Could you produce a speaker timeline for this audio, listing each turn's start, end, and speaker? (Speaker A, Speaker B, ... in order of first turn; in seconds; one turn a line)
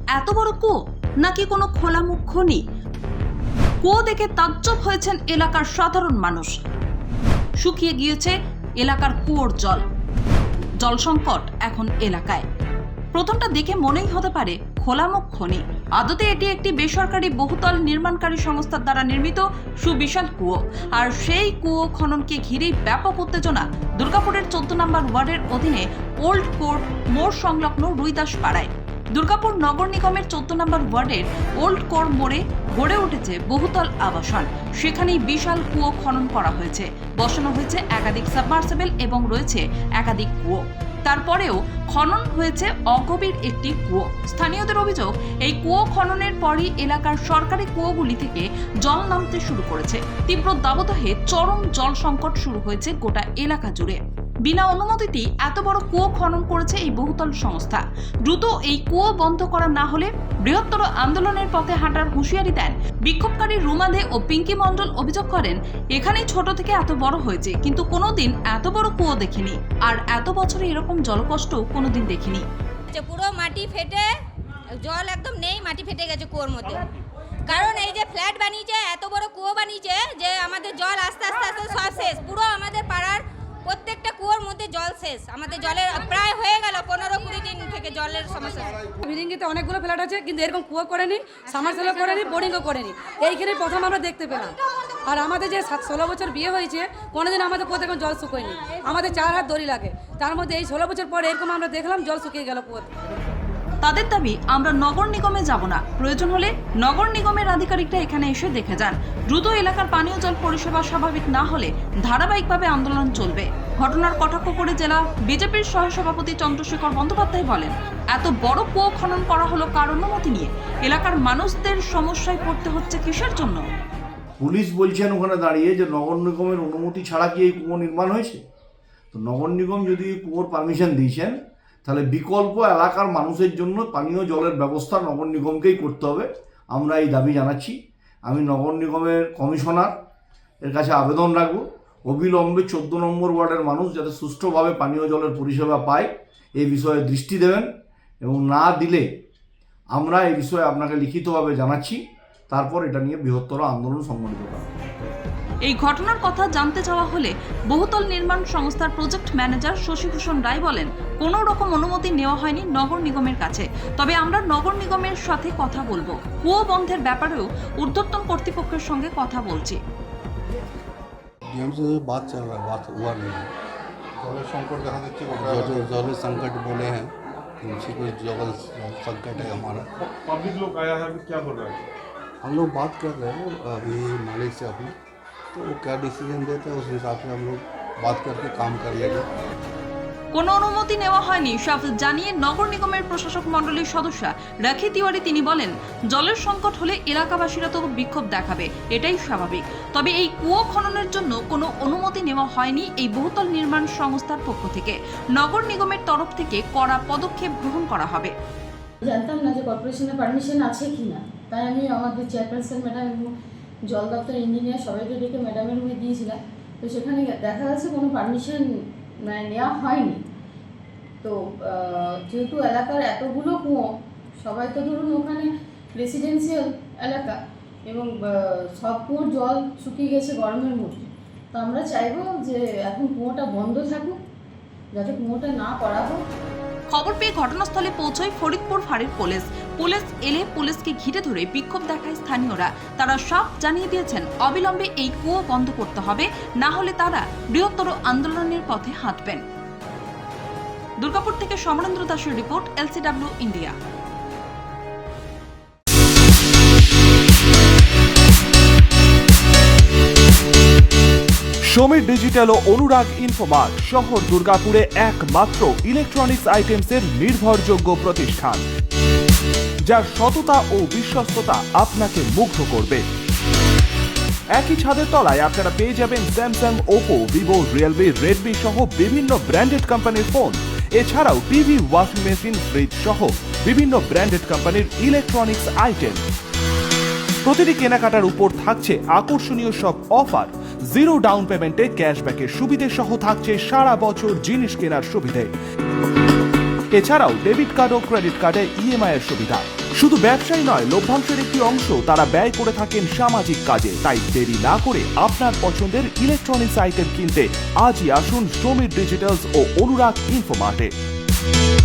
Speaker A: 0.1-2.6
Speaker A: 3.8-6.6
Speaker A: 7.6-9.8
Speaker A: 10.8-12.4
Speaker A: 13.1-72.4
Speaker B: 72.9-74.1
Speaker B: 74.8-76.8
Speaker B: 77.5-88.8
Speaker C: 89.0-102.9
Speaker A: 103.8-123.6
Speaker D: 124.4-128.4
Speaker D: 129.1-139.9
Speaker D: 140.6-147.7
Speaker D: 148.2-149.1
Speaker D: 149.9-154.7
Speaker A: 155.6-169.8
Speaker E: 171.5-173.5
Speaker F: 174.2-175.9
Speaker E: 174.4-179.9
Speaker F: 179.3-181.8
Speaker E: 182.4-184.9
Speaker E: 185.5-189.2
Speaker A: 190.3-208.3
Speaker G: 209.0-213.3
Speaker G: 213.9-218.6
Speaker G: 219.3-220.2
Speaker G: 221.2-223.8
Speaker G: 224.4-227.3
Speaker G: 227.8-234.1
Speaker G: 234.9-236.2
Speaker A: 236.9-249.4
Speaker A: 251.0-253.7
Speaker H: 261.7-268.6
Speaker H: 269.9-273.0
Speaker H: 274.5-286.2
Speaker H: 287.4-295.5
Speaker H: 296.9-310.9